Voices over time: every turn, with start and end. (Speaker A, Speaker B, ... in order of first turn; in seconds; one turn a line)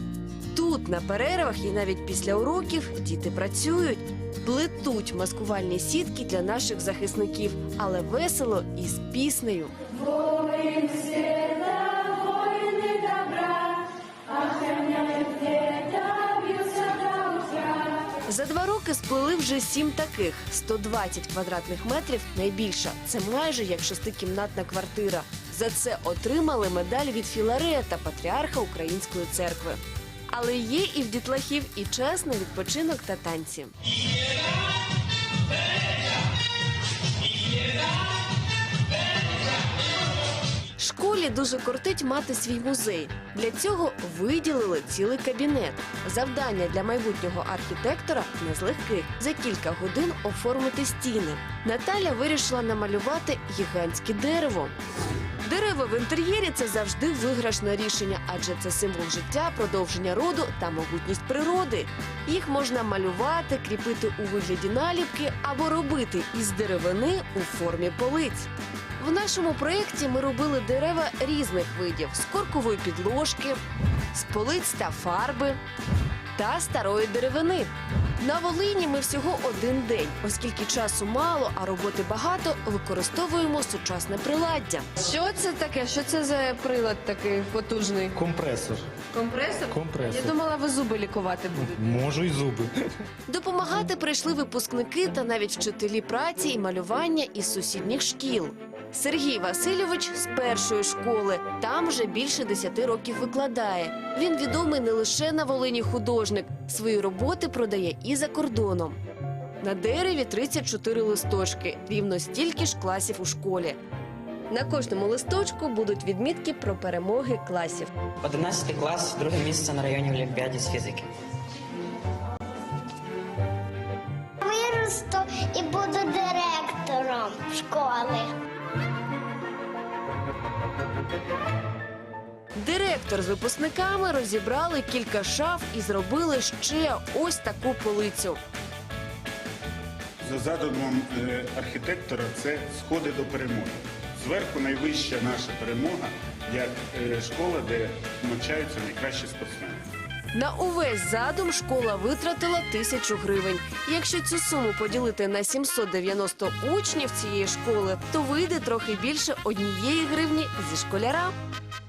Speaker A: 0.5-13.4
Speaker A: 14.5-33.7
Speaker A: 40.8-54.8
Speaker A: 55.4-73.6
Speaker A: 74.1-75.6
Speaker A: 76.3-88.2
Speaker B: 88.1-88.9
Speaker A: 89.1-91.8
Speaker B: 89.7-90.4
Speaker B: 91.7-92.7
Speaker A: 93.3-109.0
Speaker A: 109.6-113.8
Speaker A: 114.5-117.9
Speaker C: 118.2-121.1
Speaker D: 124.4-128.3
Speaker A: 132.6-138.4
Speaker E: 140.2-149.8
Speaker A: 150.3-161.3